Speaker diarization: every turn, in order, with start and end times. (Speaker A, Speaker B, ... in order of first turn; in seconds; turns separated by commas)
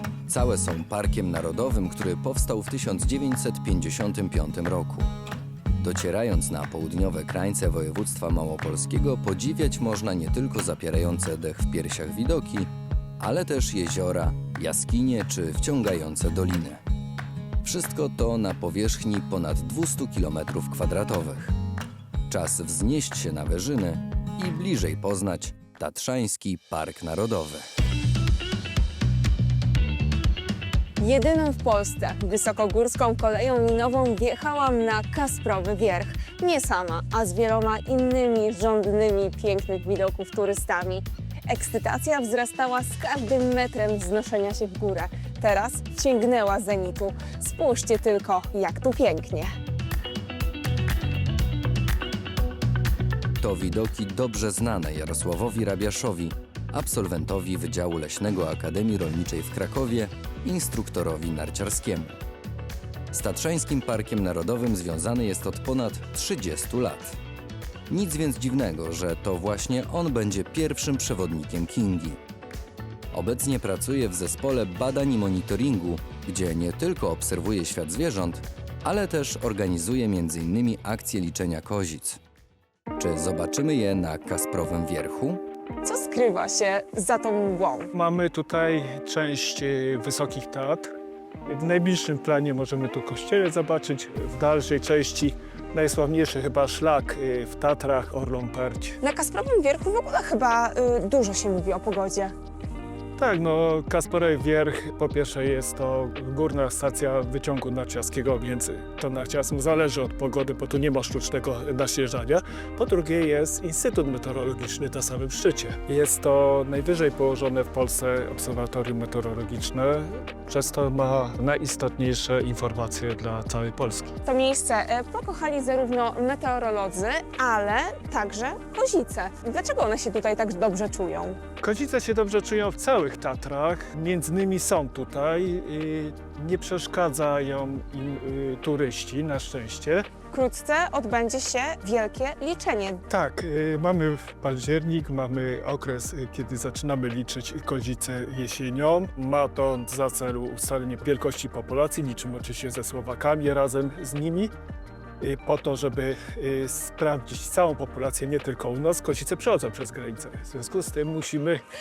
Speaker A: 0.3-5.1, Speaker A: 5.8-16.8, Speaker A: 17.6-21.5, Speaker A: 22.3-27.6, Speaker B: 31.0-49.5, Speaker A: 53.4-62.2, Speaker A: 63.1-67.2, Speaker A: 67.9-72.2, Speaker A: 73.1-82.2, Speaker A: 83.0-85.4, Speaker B: 85.8-87.9, Speaker C: 87.9-90.9, Speaker C: 91.5-99.0, Speaker B: 99.0-102.3, Speaker C: 103.2-124.1, Speaker B: 124.2-131.4, Speaker C: 131.6-140.1, Speaker B: 140.3-143.0, Speaker C: 143.1-154.5, Speaker C: 155.2-161.6